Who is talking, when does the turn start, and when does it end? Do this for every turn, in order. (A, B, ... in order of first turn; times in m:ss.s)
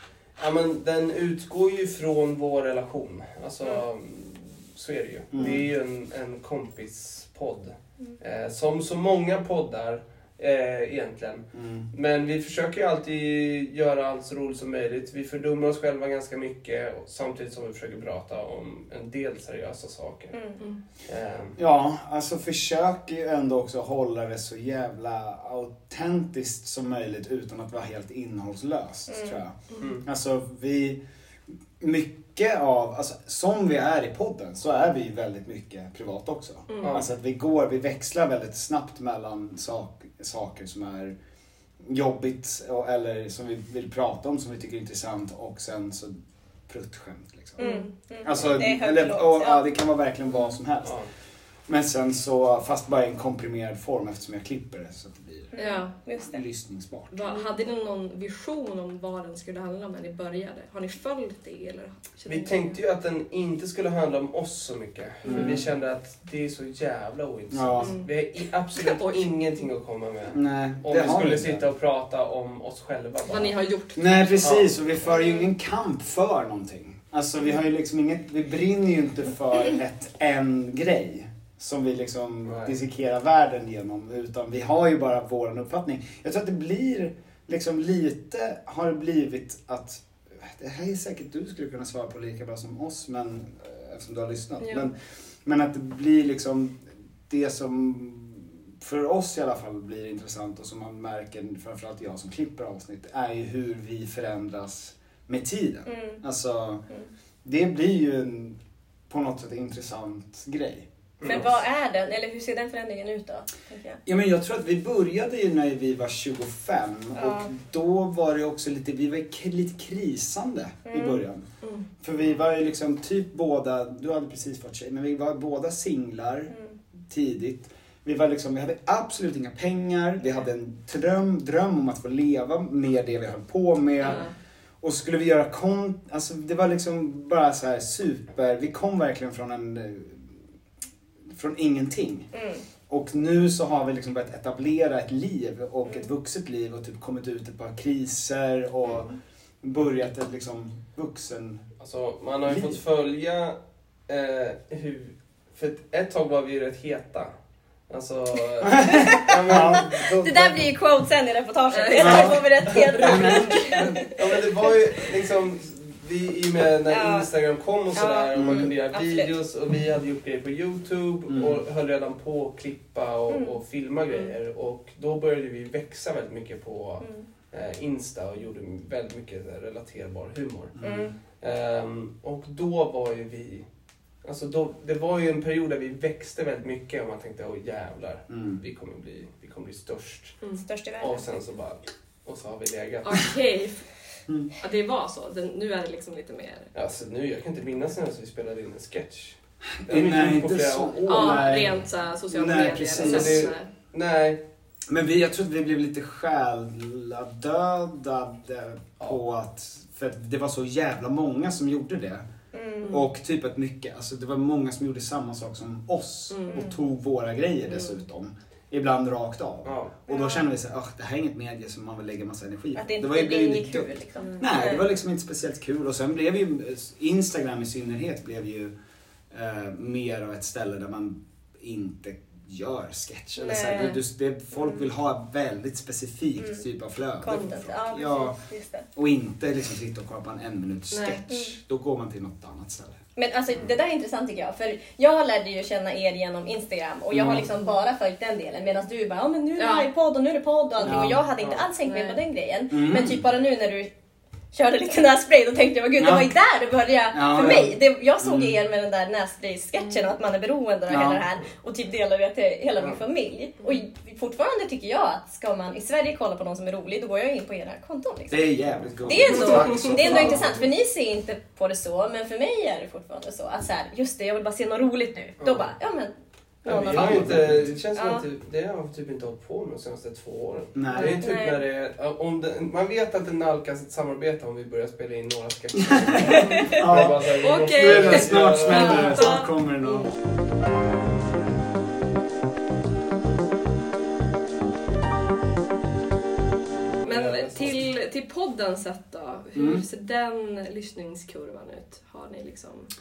0:00.4-0:20.3 A
0:05.3-0:05.7 B
0:11.5-0:11.9 B
0:20.3-0:20.6 C
0:21.1-0:21.6 A
0:21.6-0:31.0 B
0:29.1-0:29.4 C
0:29.8-0:30.0 A
0:31.8-0:41.2 B
0:36.7-0:37.0 D
0:36.8-0:37.1 A
0:41.8-0:46.1 B
0:46.7-0:47.7 B
0:47.6-0:47.9 D
0:47.6-0:49.6 C
0:48.2-0:51.0 B
0:50.8-0:51.1 A
0:51.7-0:55.5 B
0:55.5-0:56.4 C
0:55.6-0:55.9 D
0:56.2-0:57.2 B
0:57.1-1:02.8 D
1:02.3-1:13.5 A
1:05.2-1:05.6 D
1:05.2-1:05.6 B
1:07.5-1:08.0 B
1:07.8-1:08.1 D
1:08.8-1:09.3 D
1:10.3-1:11.6 B
1:13.3-1:14.7 D
1:14.0-1:46.8 B
1:14.4-1:14.7 A
1:22.4-1:22.8 A
1:34.6-1:34.9 D
1:45.9-1:46.2 C
1:47.4-1:48.6 B
1:49.1-1:51.6 B
1:51.2-1:51.5 A
1:51.2-1:54.0 C
1:54.1-2:01.4 B
1:57.2-1:57.5 C
2:00.9-2:01.2 C
2:02.0-2:06.5 B
2:07.1-2:14.2 B
2:14.0-2:14.3 D
2:14.8-2:20.3 B
2:21.3-2:22.3 B
2:22.3-2:22.6 C
2:22.9-2:29.1 B
2:29.6-2:31.6 B
2:31.8-2:33.6 A
2:32.5-2:32.8 B
2:34.1-2:37.3 A
2:37.9-2:40.1 A
2:38.6-2:40.7 B
2:40.1-2:44.1 C
2:41.7-2:43.9 D
2:42.0-2:44.1 B
2:44.2-3:00.7 A
2:46.9-2:47.3 C
2:48.0-2:49.4 C
2:48.4-2:48.7 B
2:51.3-2:51.6 B
2:53.3-2:53.6 C
2:57.0-2:57.3 C
3:00.8-3:01.1 B
3:00.8-3:01.2 C
3:01.4-3:03.6 A
3:04.2-3:10.4 A
3:08.3-3:08.6 B
3:10.6-3:11.3 C
3:11.0-3:13.2 A
3:13.0-3:13.9 D
3:14.6-3:16.7 D
3:16.7-3:21.5 A
3:19.8-3:23.5 B
3:21.1-3:23.7 D
3:23.0-3:24.4 A
3:24.9-3:32.2 B
3:32.5-3:33.0 C
3:32.9-3:48.7 B
3:36.3-3:36.6 D
3:39.6-3:39.9 A
3:40.1-3:40.5 C
3:42.8-3:44.8 C
3:44.2-3:44.5 D
3:49.3-3:58.4 B
3:53.4-3:54.0 C
3:57.2-3:58.9 C
3:59.0-4:03.0 B
4:00.9-4:01.3 D
4:01.3-4:01.6 C
4:03.2-4:13.9 C
4:07.1-4:07.5 B
4:09.6-4:09.9 D
4:10.8-4:11.2 B
4:11.4-4:11.7 A
4:11.8-4:12.2 D
4:12.7-4:13.2 B
4:14.5-4:28.5 C
4:16.0-4:16.3 B
4:17.1-4:18.6 B
4:19.8-4:20.1 D
4:20.9-4:21.2 B
4:28.3-4:30.6 B
4:29.0-4:36.1 C
4:29.3-4:30.4 D
4:29.3-4:30.6 A
4:35.4-4:35.7 A
4:36.6-4:38.2 C
4:36.6-4:49.1 A
4:36.7-4:37.7 B
4:40.8-4:41.2 B
4:41.2-4:41.6 C
4:45.9-4:50.1 B
4:46.3-4:46.8 C
4:47.4-4:50.0 D
4:48.7-4:49.3 C
4:57.0-4:57.9 A
4:57.0-5:02.9 D
4:59.6-4:59.8 B